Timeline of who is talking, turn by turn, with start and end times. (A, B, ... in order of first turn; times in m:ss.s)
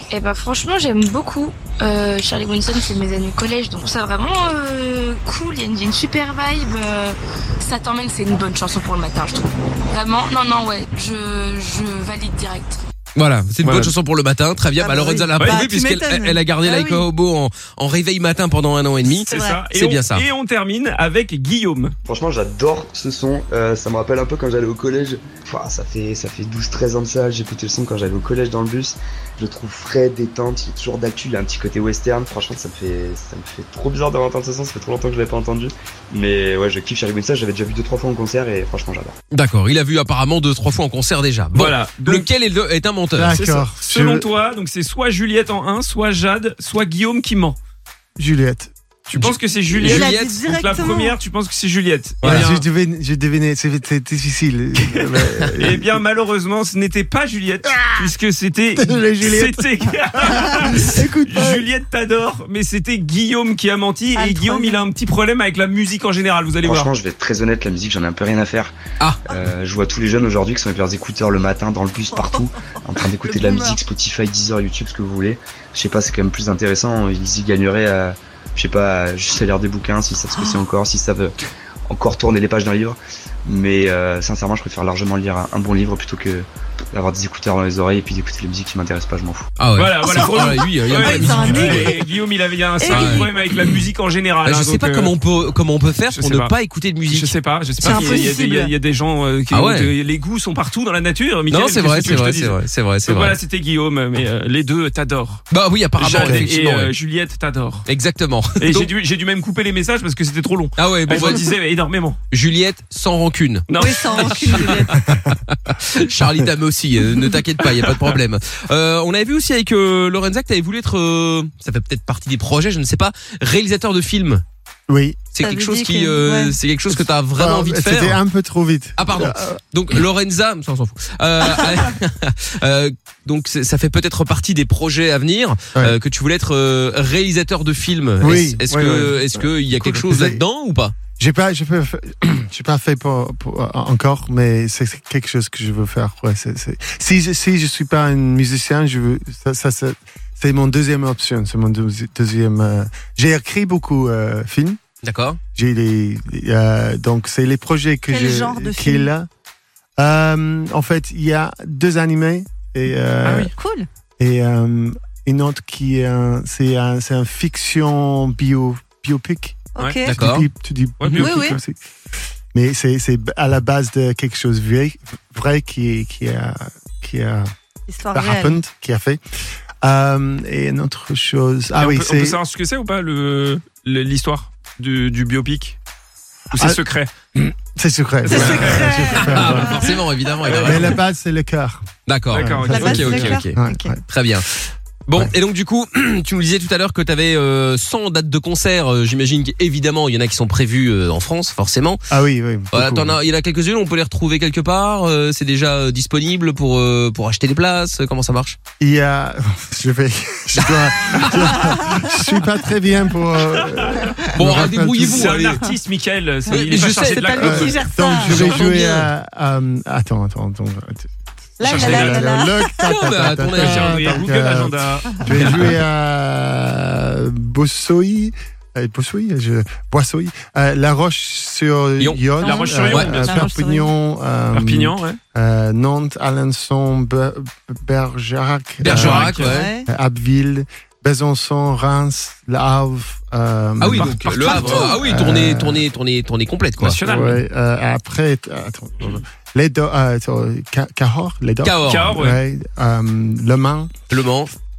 0:00.1-0:12.8 A
0:13.2-0:20.2 B
0:13.6-0:13.9 C
0:14.8-0:17.0 D
0:15.4-0:15.6 C
0:19.3-0:19.6 D
0:19.3-0:22.0 C
0:22.0-0:39.2 E
0:39.3-0:43.4 B
0:41.5-0:42.3 C
0:43.1-0:44.3 F
0:43.3-0:47.6 C
0:48.2-0:49.3 F
0:49.1-0:52.6 C
0:49.2-0:50.4 B
0:49.8-0:51.2 D
0:52.2-0:52.5 B
0:52.2-0:56.0 F
0:54.9-1:06.9 C
0:57.7-0:58.1 F
0:58.8-1:01.6 F
1:04.2-1:04.8 D
1:06.6-1:08.7 E
1:09.3-1:21.3 E
1:12.1-1:13.8 D
1:21.9-1:29.5 E
1:29.6-1:31.9 B
1:29.8-1:35.1 C
1:30.0-1:32.1 D
1:32.8-1:33.5 D
1:32.9-1:33.3 B
1:34.4-1:38.3 B
1:36.1-1:36.5 C
1:37.1-1:45.4 C
1:37.8-1:38.7 D
1:39.5-1:39.9 B
1:41.5-1:43.4 B
1:45.5-1:46.9 B
1:46.0-1:47.8 C
1:47.9-1:48.9 B
1:48.6-1:52.2 C
1:50.8-1:51.5 B
1:52.3-1:54.6 B
1:53.7-1:55.0 C
1:53.8-1:55.0 D
1:55.5-2:04.4 B
1:57.8-1:58.2 C
2:04.9-2:05.2 F
2:05.3-2:08.2 B
2:05.4-2:06.6 D
2:07.3-2:09.6 F
2:09.0-2:20.9 B
2:18.2-2:20.4 F
2:21.2-2:34.8 F
2:35.0-2:35.4 B
2:35.5-2:39.3 F
2:38.1-2:39.1 D
2:40.0-2:43.5 F
2:43.2-2:43.5 C
2:43.5-2:43.9 D
2:44.2-2:51.8 F
2:49.7-2:50.2 D
2:49.8-2:50.0 C
2:50.0-2:50.5 B
2:51.0-2:51.6 C
2:51.1-2:51.6 D
2:52.5-2:57.5 F
2:57.9-2:58.6 D
2:58.1-2:59.2 F
2:59.8-3:02.4 F
3:01.8-3:05.8 C
3:06.5-3:07.1 C
3:06.5-3:06.8 F
3:07.3-3:09.9 F
3:08.2-3:09.9 D
3:08.3-3:09.7 C
3:08.3-3:11.0 B
3:10.4-3:11.0 C
3:10.5-3:14.0 F
3:12.1-3:14.5 B
3:12.3-3:13.3 C
3:12.7-3:13.9 D
3:15.1-3:22.0 B
3:22.1-3:23.2 F
3:22.7-3:28.6 B
3:28.8-3:35.5 F
3:30.6-3:31.3 B
3:33.6-3:34.1 C
3:34.3-3:35.6 B
3:35.0-3:37.8 C
3:36.5-3:39.1 B
3:37.0-3:38.4 D
3:37.4-4:05.8 F
3:41.6-3:42.7 D
3:41.6-3:42.4 C
3:42.8-3:44.2 B
3:43.4-3:45.8 C
3:52.4-3:53.9 D
3:52.4-3:53.5 C
3:54.5-3:55.2 C
3:58.8-3:59.7 B
3:58.9-3:59.6 C
3:59.4-3:59.9 D
4:03.8-4:07.0 B
4:03.9-4:05.0 C
4:04.4-4:04.9 D
4:06.8-4:07.4 C
4:07.0-4:13.9 F
4:11.6-4:12.2 B
4:11.8-4:12.4 C
4:14.1-4:14.5 B